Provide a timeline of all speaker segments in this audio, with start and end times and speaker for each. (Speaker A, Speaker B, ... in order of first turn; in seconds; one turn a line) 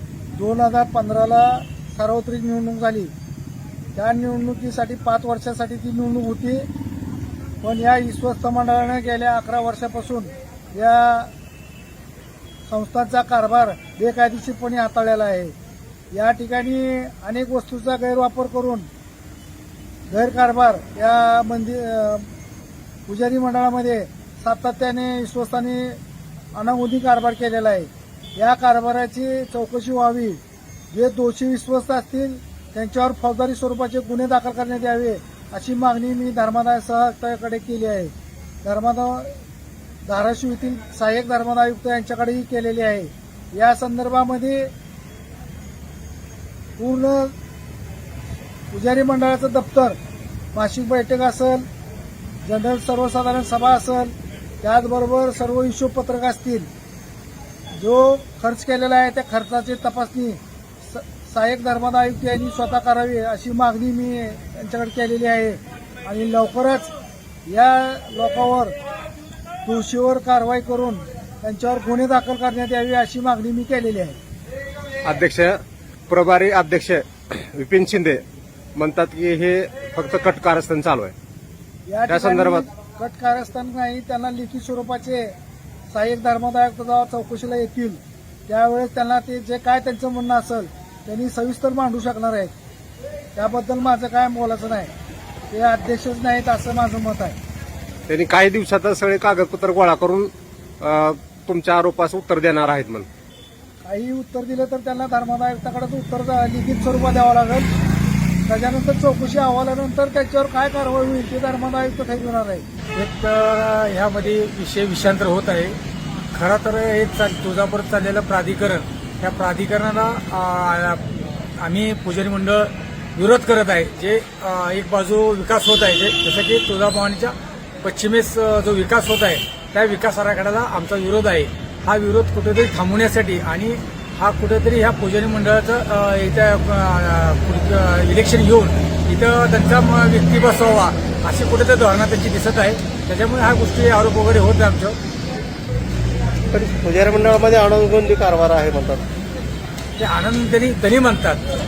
Speaker A: 0.3-3.1
Speaker A: 4.0-6.7
Speaker A: 7.6-11.3
Speaker A: 12.7-15.5
Speaker A: 16.1-18.9
Speaker A: 20.1-22.3
Speaker A: 23.1-26.0
Speaker A: 26.5-39.3
Speaker A: 40.0-44.7
Speaker A: 46.8-47.3
Speaker A: 48.7-50.0
Speaker A: 50.5-51.6
Speaker A: 52.4-56.7
Speaker A: 57.8-66.9
Speaker A: 67.5-68.8
Speaker A: 69.6-74.2
Speaker B: 75.0-75.6
Speaker B: 76.1-78.2
Speaker B: 78.8-81.1
Speaker A: 81.9-85.3
Speaker B: 82.1-82.6
Speaker A: 85.9-92.5
Speaker A: 93.3-94.9
Speaker A: 95.5-97.4
Speaker B: 98.1-103.1
Speaker A: 103.8-107.7
Speaker A: 108.5-112.6
Speaker C: 112.9-115.8
Speaker C: 116.3-145.0
Speaker D: 146.5-149.0
Speaker C: 150.0-151.4